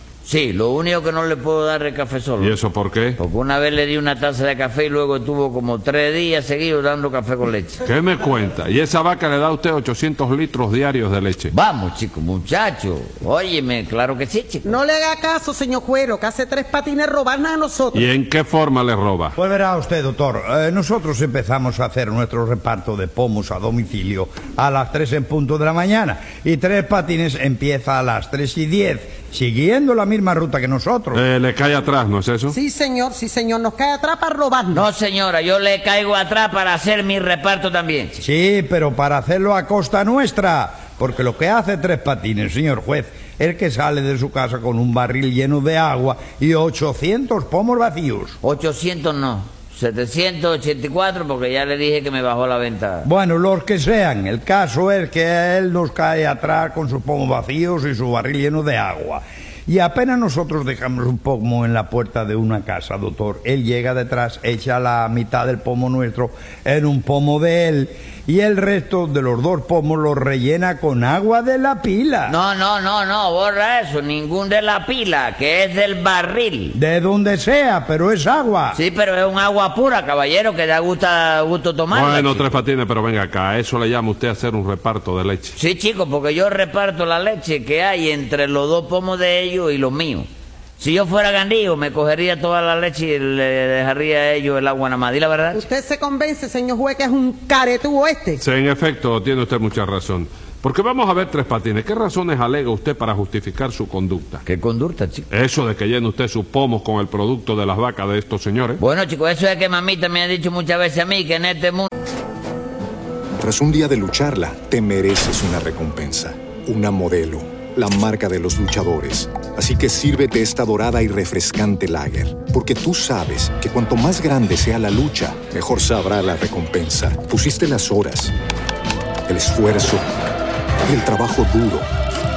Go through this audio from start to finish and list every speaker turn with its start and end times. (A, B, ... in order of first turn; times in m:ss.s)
0:00.2-0:02.6 A
0:02.4-0:03.2 B
0:03.2-0:07.8 A
0:07.8-0:11.5 B
0:11.5-0:14.7 A
0:14.6-0:18.1 C
0:17.9-0:19.4 B
0:19.4-0:31.2 D
0:31.1-0:32.6 B
0:32.5-0:34.9 C
0:34.7-0:38.2 A
0:38.2-0:48.4 D
0:48.4-0:53.1 A
0:53.0-1:12.4 D
1:12.3-1:16.8 A
1:16.8-1:18.8 D
1:18.7-1:22.6 A
1:21.9-1:25.6 B
1:25.6-1:30.3 A
1:30.8-1:35.6 A
1:35.5-1:38.4 C
1:38.4-1:44.4 B
1:44.5-1:45.3 A
1:45.3-1:48.8 B
1:48.8-1:51.9 A
1:53.4-2:08.3 E
2:09.3-2:10.1 E
2:10.9-2:11.9 E